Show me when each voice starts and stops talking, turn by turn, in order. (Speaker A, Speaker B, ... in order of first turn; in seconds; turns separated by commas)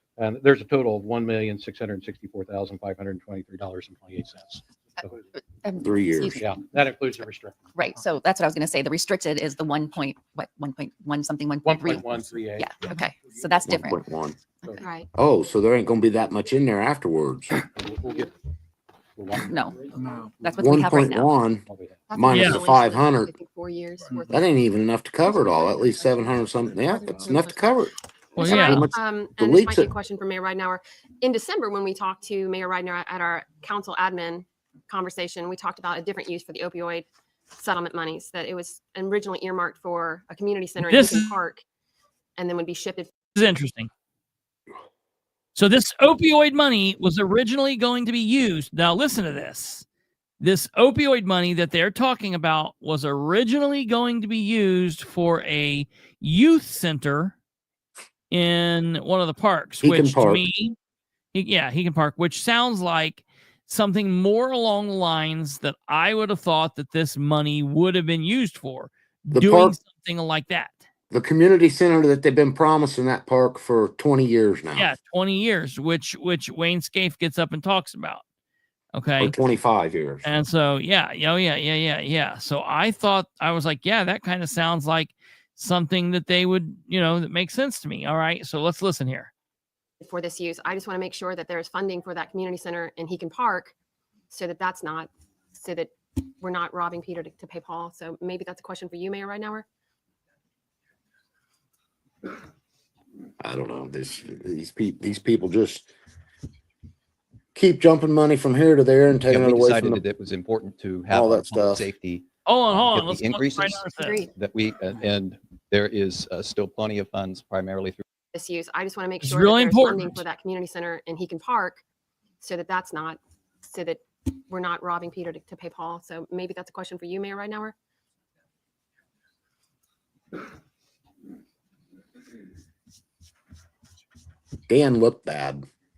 Speaker A: 0.2-5.2, Speaker B: 5.3-6.4, Speaker C: 5.8-6.4, Speaker A: 6.3-7.7, Speaker B: 7.7-14.0, Speaker A: 11.6-12.7, Speaker C: 13.6-14.4, Speaker D: 14.8-15.1, Speaker C: 15.1-17.6, Speaker A: 17.8-18.3, Speaker A: 19.2-21.1, Speaker B: 19.4-19.8, Speaker B: 20.4-21.3, Speaker C: 20.6-23.3, Speaker A: 21.7-22.0, Speaker D: 22.1-24.4, Speaker E: 22.3-22.6, Speaker C: 24.3-29.9, Speaker D: 25.4-26.1, Speaker D: 27.0-27.7, Speaker E: 28.4-28.9, Speaker D: 28.4-41.6, Speaker E: 40.8-41.4, Speaker D: 42.4-43.1, Speaker E: 43.3-43.9, Speaker E: 45.5-49.9, Speaker E: 50.4-57.4, Speaker E: 58.3-60.8, Speaker C: 59.8-60.5, Speaker E: 61.3-70.8, Speaker C: 69.3-69.8, Speaker C: 71.1-74.9, Speaker E: 74.8-78.2, Speaker E: 78.9-79.3, Speaker C: 79.2-80.3, Speaker E: 80.2-89.3, Speaker D: 90.0-93.7, Speaker D: 94.3-99.7, Speaker C: 103.4-105.9, Speaker C: 107.5-110.0, Speaker F: 109.3-118.0, Speaker C: 111.1-111.9, Speaker E: 112.5-114.2, Speaker D: 114.0-114.3, Speaker D: 118.3-121.8, Speaker E: 119.2-120.2, Speaker D: 122.4-127.7, Speaker C: 134.7-135.6